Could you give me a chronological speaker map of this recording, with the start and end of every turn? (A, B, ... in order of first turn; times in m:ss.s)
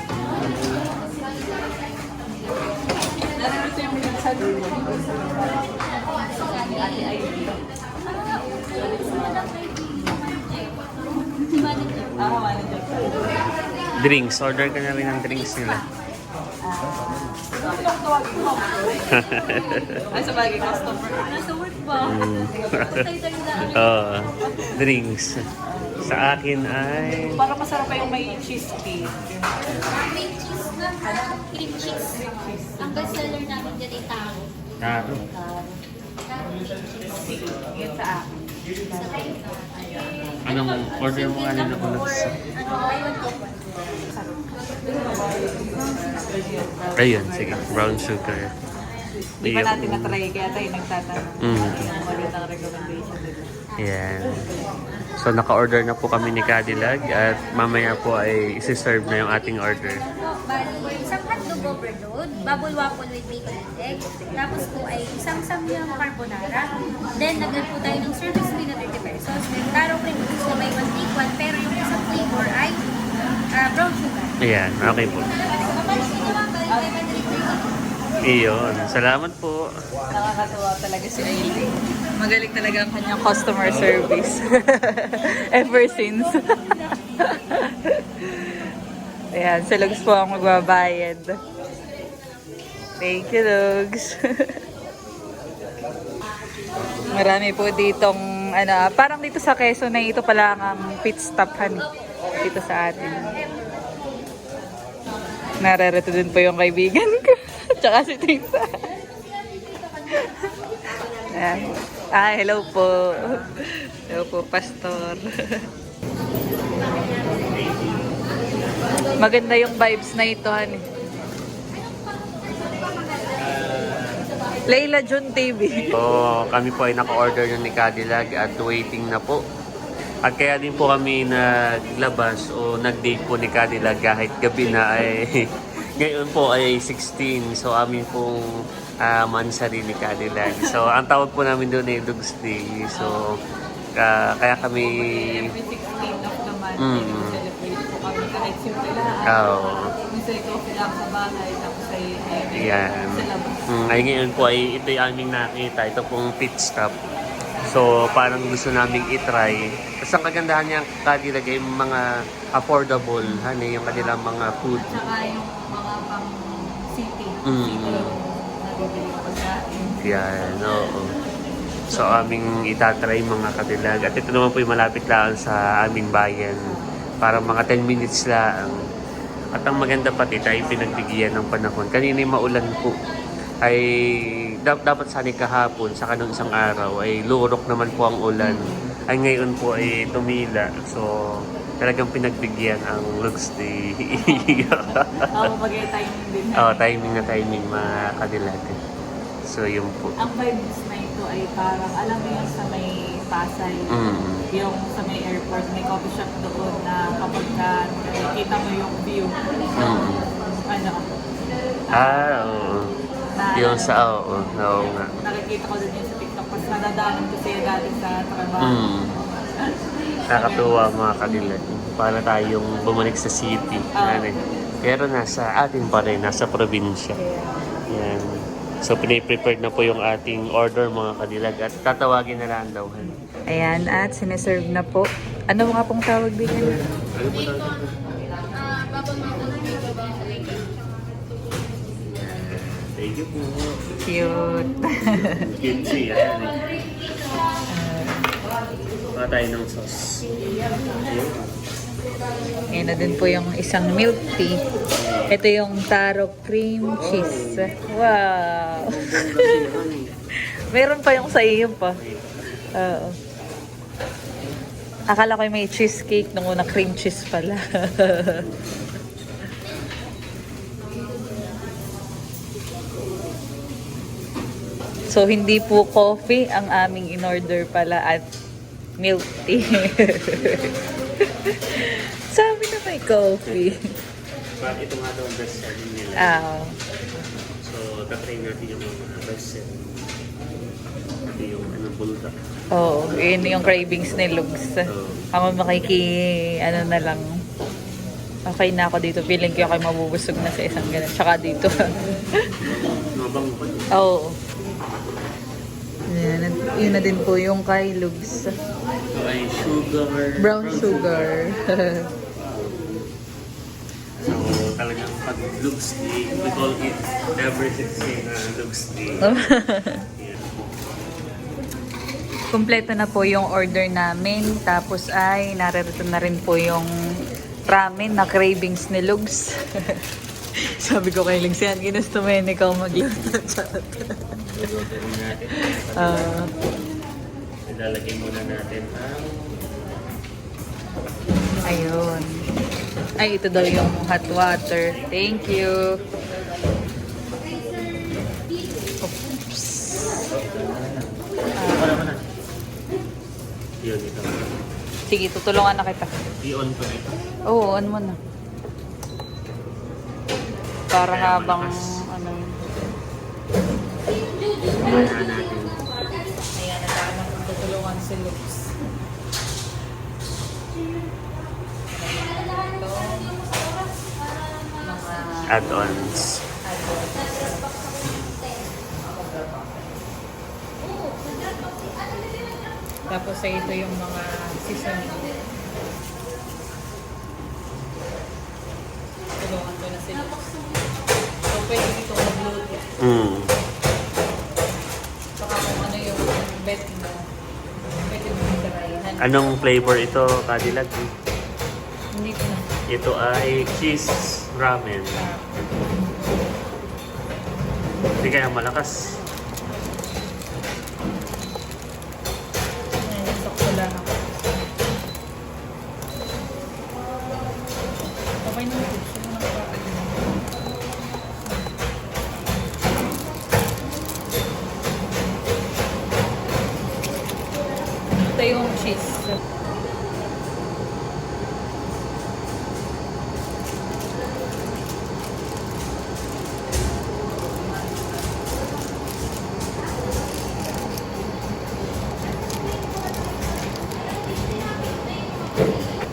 0:00.2-0:00.8 A
0:03.3-0:05.6 B
0:06.2-0:07.2 C
0:06.5-0:07.6 B
0:08.0-0:10.9 C
0:08.7-0:10.2 B
0:11.4-0:12.3 C
0:11.6-0:12.1 A
0:12.2-0:13.2 B
0:13.0-0:15.8 A
0:15.3-0:15.9 C
0:16.6-0:19.6 B
0:19.1-0:20.0 A
0:20.1-0:21.5 B
0:21.2-0:23.8 C
0:22.0-0:23.1 A
0:23.6-0:25.4 A
0:25.7-0:26.3 B
0:26.0-0:27.4 A
0:27.4-0:29.5 B
0:29.9-0:34.5 C
0:32.1-0:33.1 B
0:34.8-0:35.2 A
0:35.3-0:35.8 B
0:37.0-0:39.3 B
0:38.9-0:43.6 C
0:40.4-0:42.4 A
0:44.0-0:48.0 B
0:47.0-0:48.5 A
0:49.4-0:53.5 B
0:49.4-0:50.2 A
0:51.4-0:51.9 A
0:53.8-0:54.4 A
0:55.2-1:00.0 A
1:00.0-1:12.8 C
1:13.5-1:14.4 C
1:14.4-1:15.3 A
1:15.5-1:17.6 C
1:18.2-1:19.6 A
1:20.1-1:28.7 B
1:23.6-1:24.0 A
1:29.3-1:31.3 B
1:33.0-1:34.6 B
1:37.1-1:41.9 B
1:42.4-1:43.4 B
1:45.6-1:48.9 B
1:50.1-1:50.5 B
1:51.3-1:55.6 B
1:57.5-1:59.2 A
1:59.2-2:00.8 B
2:02.0-2:03.4 C
2:03.4-2:04.2 A
2:04.7-2:06.0 B
2:05.8-2:09.4 A
2:10.2-2:18.4 A
2:19.0-2:23.3 A
2:22.9-2:23.2 B
2:24.0-2:25.4 A
2:24.6-2:29.5 B
2:26.8-2:27.4 A
2:29.2-2:29.9 A
2:30.1-2:33.6 B
2:32.5-2:37.0 A
2:37.6-2:42.0 A
2:42.5-2:45.0 A
2:44.8-2:46.4 B
2:46.9-2:50.0 B
2:47.5-2:48.1 A
2:50.0-2:51.1 A
2:51.9-2:52.3 B
2:51.9-2:56.6 A
2:56.6-2:57.0 B
2:57.2-2:58.8 A
2:59.5-3:03.0 A
3:03.6-3:03.9 A
3:04.6-3:11.1 A
3:08.4-3:08.8 B
3:11.8-3:15.5 A
3:14.2-3:16.8 B
3:16.6-3:18.8 A
3:19.4-3:20.1 A
3:20.2-3:23.9 B
3:23.9-3:24.4 A
3:24.5-3:29.4 B
3:29.7-3:30.3 A
3:30.6-3:31.1 B
3:31.9-3:32.9 A
3:33.4-3:34.0 B
3:33.6-3:35.1 A
3:35.2-3:39.5 B
3:38.6-3:39.1 A
3:40.3-3:41.6 B
3:40.3-3:47.2 A
3:44.0-3:44.4 B
3:47.2-3:47.8 B
3:47.9-3:53.1 A
3:53.1-3:56.8 B
3:56.6-3:58.1 A
3:58.9-4:00.6 A
4:02.1-4:03.9 A
4:04.0-4:05.2 B
4:05.0-4:06.6 A
4:07.7-4:08.3 B
4:09.1-4:10.3 A
4:10.9-4:11.5 A
4:12.7-4:14.6 B
4:15.0-4:15.4 A
4:15.3-4:19.5 B
4:17.1-4:17.8 A
4:18.9-4:20.1 A
4:20.7-4:22.0 B
4:21.9-4:22.3 A
4:22.7-4:23.2 B
4:25.1-4:28.5 B
4:35.1-4:38.2 B
4:39.0-4:40.6 B
4:40.4-4:40.8 A
4:41.4-4:43.8 B
4:44.6-4:46.5 A
4:46.2-4:46.8 B
4:47.6-4:50.1 A
4:51.3-4:52.3 A
4:52.7-4:57.3 B
4:54.8-4:55.3 A
4:58.5-5:01.8 B
5:02.6-5:03.9 A
5:04.0-5:04.3 B
5:06.1-5:08.4 B
5:09.1-5:11.4 A
5:10.4-5:12.0 B
5:12.4-5:12.7 A
5:14.2-5:19.4 A
5:19.2-5:20.0 B
5:20.1-5:20.5 A
5:22.5-5:26.9 B
5:27.7-5:30.0 B
5:30.8-5:34.1 B
5:34.5-5:36.5 A
5:36.0-5:36.4 B
5:37.6-5:39.6 A
5:41.6-5:42.4 B
5:43.2-5:46.0 B
5:49.0-5:50.1 B
5:50.3-5:51.1 A
5:51.6-5:52.0 B
5:51.7-5:52.3 A
5:53.8-5:54.5 A
5:55.1-5:56.1 B
5:56.4-5:57.2 A
5:57.5-5:58.2 B
6:00.9-6:02.6 B
6:01.1-6:01.9 A
6:04.3-6:06.1 C
6:04.8-6:05.8 A
6:06.5-6:08.7 B
6:12.1-6:13.3 B
6:12.3-6:13.7 C
6:14.3-6:15.1 C
6:14.8-6:17.6 B
6:15.5-6:16.4 A
6:17.4-6:18.3 C
6:21.0-6:21.3 C
6:23.1-6:25.3 B
6:29.4-6:30.5 B
6:31.5-6:32.8 B
6:33.0-6:33.5 A
6:35.4-6:37.2 B
6:37.9-6:39.3 B
6:39.2-6:41.1 A
6:42.1-6:42.7 B
6:42.9-6:45.2 A
6:45.2-6:46.2 B
6:48.2-6:49.2 A
6:53.0-6:54.8 B
6:58.4-7:00.4 B
7:01.4-7:01.7 B
7:08.1-7:09.4 B